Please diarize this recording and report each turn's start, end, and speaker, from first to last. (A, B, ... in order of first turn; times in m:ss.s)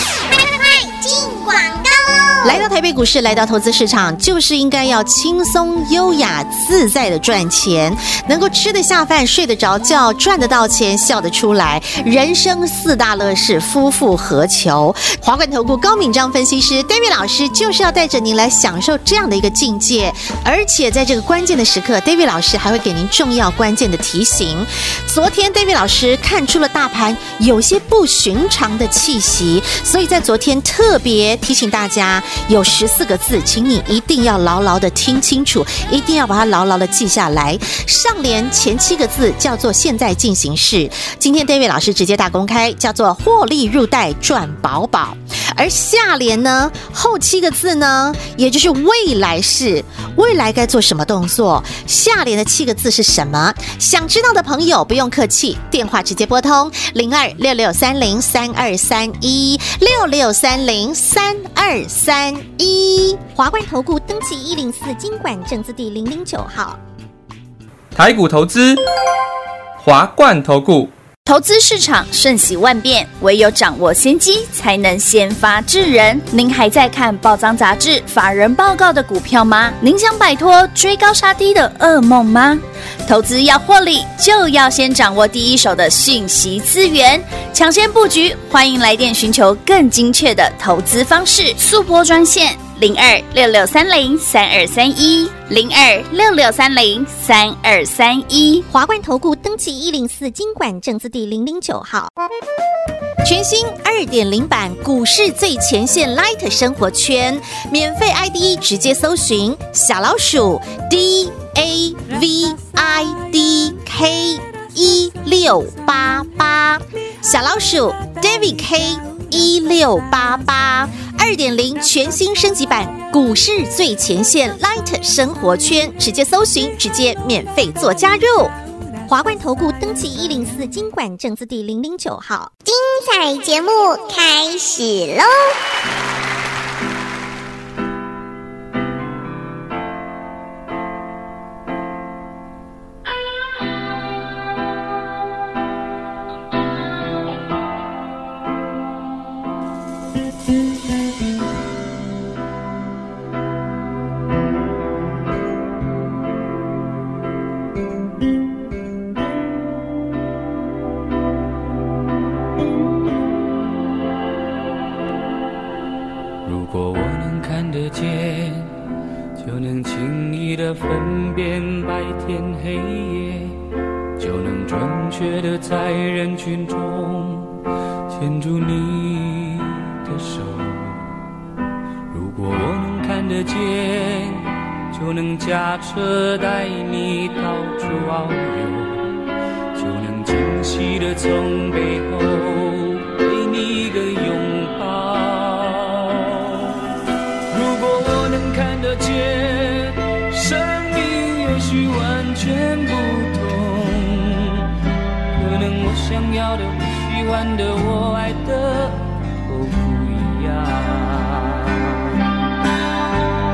0:00.3-0:02.6 A
0:02.4-1:03.2 B
1:03.4-1:06.8 A
1:08.0-1:08.8 C
1:09.8-1:10.9 C
1:11.2-1:38.6 D
1:38.7-1:42.1 A
1:43.2-2:08.5 B
2:09.1-2:15.5 A
2:46.4-2:48.7 E
2:49.4-2:53.6 E
2:54.2-2:57.6 E
2:58.1-3:01.0 E
3:02.1-3:09.1 E
3:09.8-3:16.8 E
3:17.5-3:24.7 E
3:25.3-3:32.2 E